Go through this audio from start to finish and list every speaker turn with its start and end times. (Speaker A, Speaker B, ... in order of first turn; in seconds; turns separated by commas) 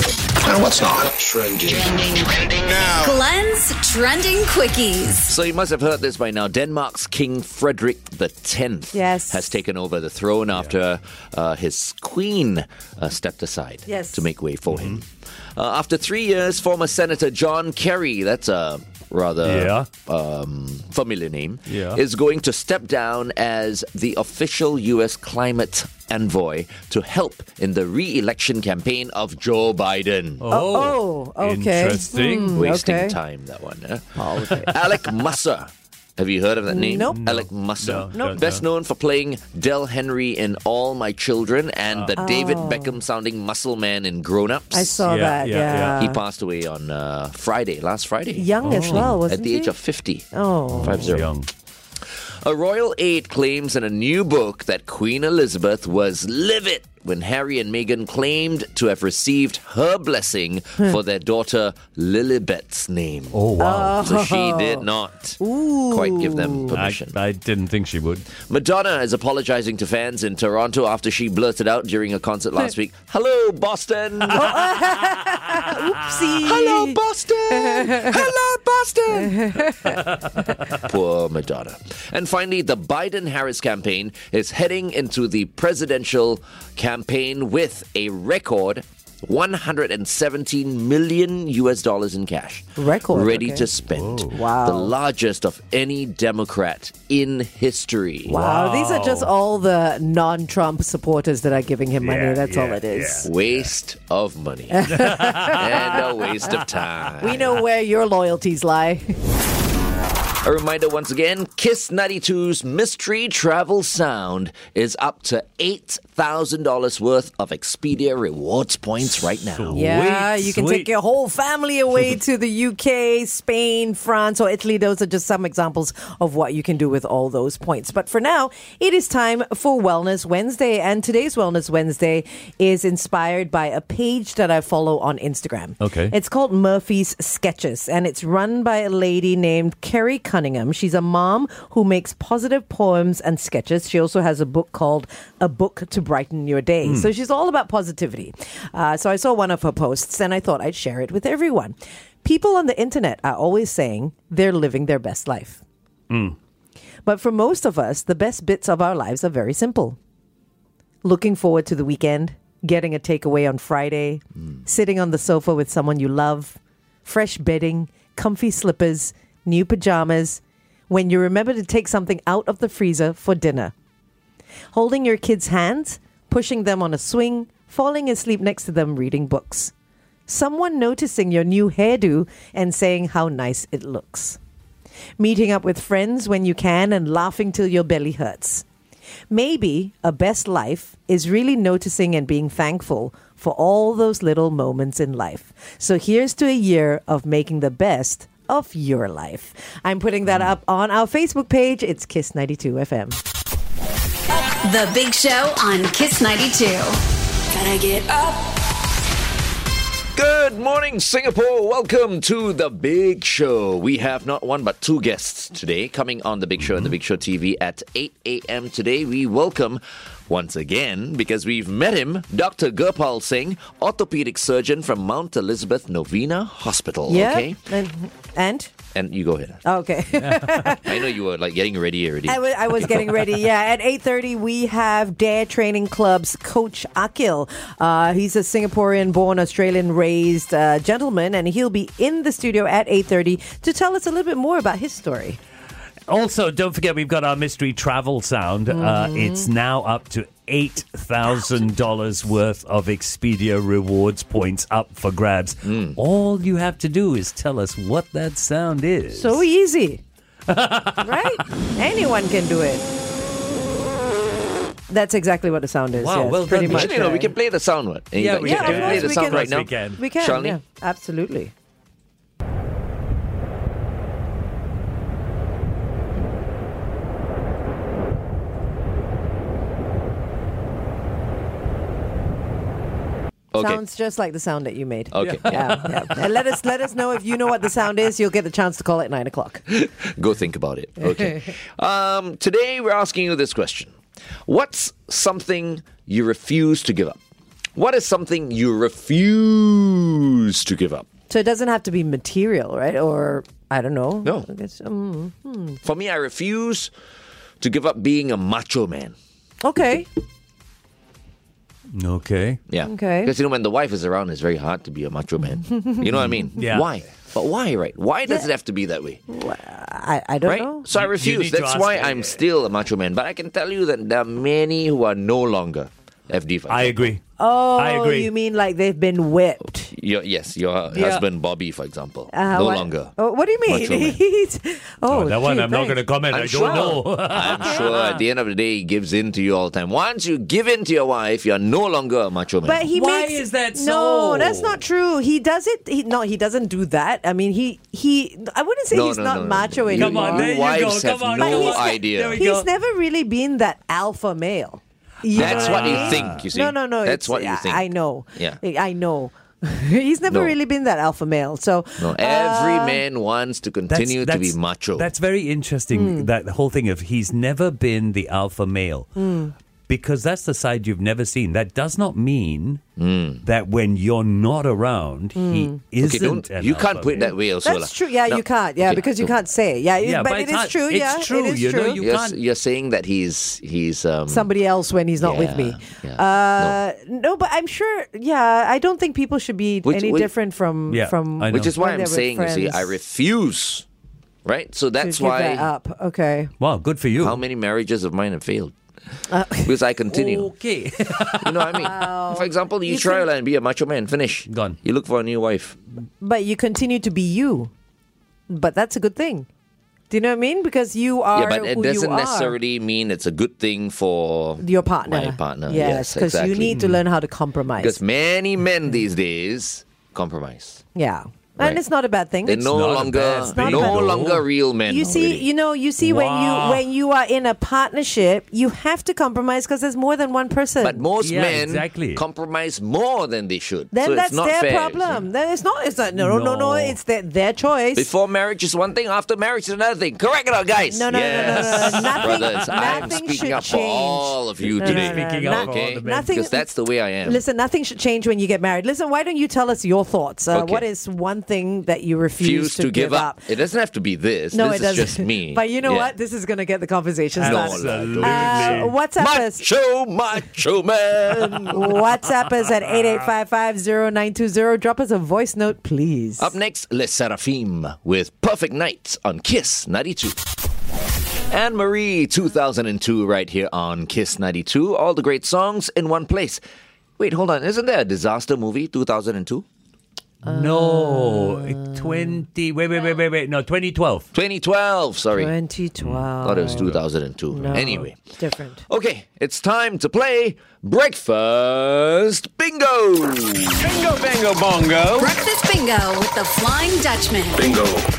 Speaker A: 0.4-3.1, Speaker B: 2.9-5.3, Speaker C: 5.3-15.0, Speaker D: 8.9-9.5, Speaker D: 13.9-14.2, Speaker E: 14.7-15.0, Speaker C: 15.6-30.4, Speaker E: 19.4-19.9, Speaker E: 21.7-22.0, Speaker E: 30.4-32.6, Speaker D: 30.5-33.2, Speaker C: 32.5-45.1, Speaker D: 34.2-34.7, Speaker D: 36.7-37.2, Speaker E: 37.1-38.6, Speaker D: 42.1-43.0, Speaker D: 44.7-46.2, Speaker E: 45.0-46.0, Speaker C: 45.9-50.3, Speaker D: 48.4-49.7, Speaker E: 48.6-49.1, Speaker D: 50.3-51.0, Speaker E: 50.7-51.5, Speaker C: 50.8-51.3, Speaker C: 52.4-63.4, Speaker E: 63.3-64.0, Speaker D: 63.6-64.8, Speaker C: 64.0-67.2, Speaker D: 65.4-66.7, Speaker E: 66.7-68.2, Speaker C: 68.4-74.5, Speaker D: 74.3-77.0, Speaker C: 76.4-79.5, Speaker D: 77.5-78.2, Speaker D: 79.1-80.0, Speaker E: 79.9-80.5, Speaker C: 80.7-98.3, Speaker D: 92.8-93.7, Speaker E: 93.9-94.3, Speaker D: 94.3-94.9, Speaker D: 98.3-103.3, Speaker E: 98.3-99.3, Speaker E: 102.0-103.6, Speaker C: 103.2-107.5, Speaker D: 104.7-106.0, Speaker E: 104.9-106.8, Speaker D: 107.2-109.1, Speaker C: 110.4-119.8, Speaker E: 119.5-120.9, Speaker D: 119.7-155.6, Speaker E: 135.8-136.1, Speaker E: 146.8-147.1, Speaker E: 156.1-156.3, Speaker D: 157.1-160.0, Speaker D: 161.0-173.7, Speaker D: 174.7-179.7, Speaker D: 180.3-184.4, Speaker D: 185.2-188.6, Speaker D: 189.3-203.2, Speaker B: 204.6-207.0, Speaker B: 207.5-208.4, Speaker C: 210.1-227.6, Speaker D: 227.1-228.7, Speaker C: 228.9-229.6, Speaker D: 229.6-230.9, Speaker E: 230.2-230.6, Speaker C: 230.6-233.2, Speaker D: 232.2-245.4, Speaker E: 246.1-259.4, Speaker D: 248.7-249.5, Speaker C: 255.6-256.0, Speaker D: 259.1-260.0, Speaker E: 260.5-261.5, Speaker D: 261.0-262.8, Speaker D: 264.9-267.3, Speaker E: 265.9-267.0, Speaker C: 266.6-270.6, Speaker E: 268.1-270.0, Speaker D: 268.4-271.5, Speaker C: 283.5-283.8, Speaker D: 283.6-289.6, Speaker C: 285.1-285.9, Speaker E: 285.2-286.2, Speaker C: 289.7-293.9, Speaker D: 291.1-291.5, Speaker C: 294.4-297.2, Speaker C: 297.8-301.1, Speaker D: 301.3-305.8, Speaker C: 305.8-306.9, Speaker C: 307.6-309.1, Speaker D: 309.6-310.1, Speaker E: 311.9-312.6, Speaker C: 312.7-319.2, Speaker D: 312.8-313.3, Speaker D: 315.7-316.0, Speaker E: 316.6-316.9, Speaker D: 319.3-320.9, Speaker C: 320.4-327.1, Speaker E: 320.9-322.4, Speaker E: 326.7-327.2, Speaker D: 327.4-329.9, Speaker E: 327.8-328.3, Speaker C: 329.9-333.1, Speaker E: 330.9-331.2, Speaker D: 332.3-336.0, Speaker C: 333.6-334.2, Speaker E: 335.1-338.2, Speaker C: 336.3-342.9, Speaker D: 336.6-336.9, Speaker D: 337.5-337.9, Speaker D: 342.6-350.5, Speaker E: 342.9-344.8, Speaker C: 348.9-352.4, Speaker E: 349.9-352.7, Speaker D: 351.4-363.0, Speaker E: 355.3-356.4, Speaker C: 355.3-358.6, Speaker C: 360.3-360.5, Speaker C: 362.0-365.1, Speaker E: 363.9-369.1, Speaker D: 365.9-366.3, Speaker D: 369.1-369.5, Speaker E: 369.9-372.8, Speaker C: 373.0-373.4, Speaker E: 373.4-377.3, Speaker D: 375.4-375.8, Speaker C: 376.0-379.3, Speaker D: 377.2-382.0, Speaker E: 380.0-382.4, Speaker C: 382.0-384.5, Speaker D: 384.3-392.9, Speaker C: 385.2-386.8, Speaker C: 389.8-390.3, Speaker E: 390.9-391.7, Speaker C: 391.5-393.9, Speaker C: 394.4-395.7, Speaker D: 395.0-396.5, Speaker E: 396.6-397.4, Speaker C: 397.2-398.8, Speaker D: 399.3-399.7, Speaker C: 399.6-400.5, Speaker E: 400.1-401.8, Speaker C: 401.4-405.8, Speaker D: 401.7-403.3, Speaker E: 404.5-404.8, Speaker D: 406.2-407.7, Speaker D: 408.5-409.5, Speaker D: 410.1-412.6, Speaker C: 411.3-416.8, Speaker D: 414.6-418.0, Speaker E: 416.7-417.0, Speaker C: 417.8-420.8, Speaker D: 420.9-422.7, Speaker C: 422.4-425.5, Speaker E: 422.7-424.4, Speaker D: 423.4-424.3, Speaker D: 424.9-431.0, Speaker E: 426.0-426.8, Speaker C: 430.8-435.2, Speaker E: 431.2-432.2, Speaker D: 433.9-438.1, Speaker E: 436.1-437.0, Speaker C: 437.9-447.4, Speaker D: 440.9-446.7, Speaker E: 441.2-443.1, Speaker E: 444.7-446.3, Speaker D: 447.2-453.4, Speaker C: 450.5-450.9, Speaker C: 452.4-456.1, Speaker D: 454.5-459.6, Speaker E: 457.4-458.9, Speaker C: 457.4-461.9, Speaker D: 461.7-466.5, Speaker C: 466.4-470.4, Speaker C: 471.5-476.6, Speaker C: 477.2-479.6, Speaker E: 480.4-484.3, Speaker D: 480.4-482.3, Speaker C: 484.3-485.5, Speaker D: 485.3-486.9, Speaker C: 486.4-488.2, Speaker D: 487.5-488.8, Speaker C: 488.9-493.9, Speaker A: 493.8-495.3, Speaker B: 495.2-497.7, Speaker A: 497.6-498.0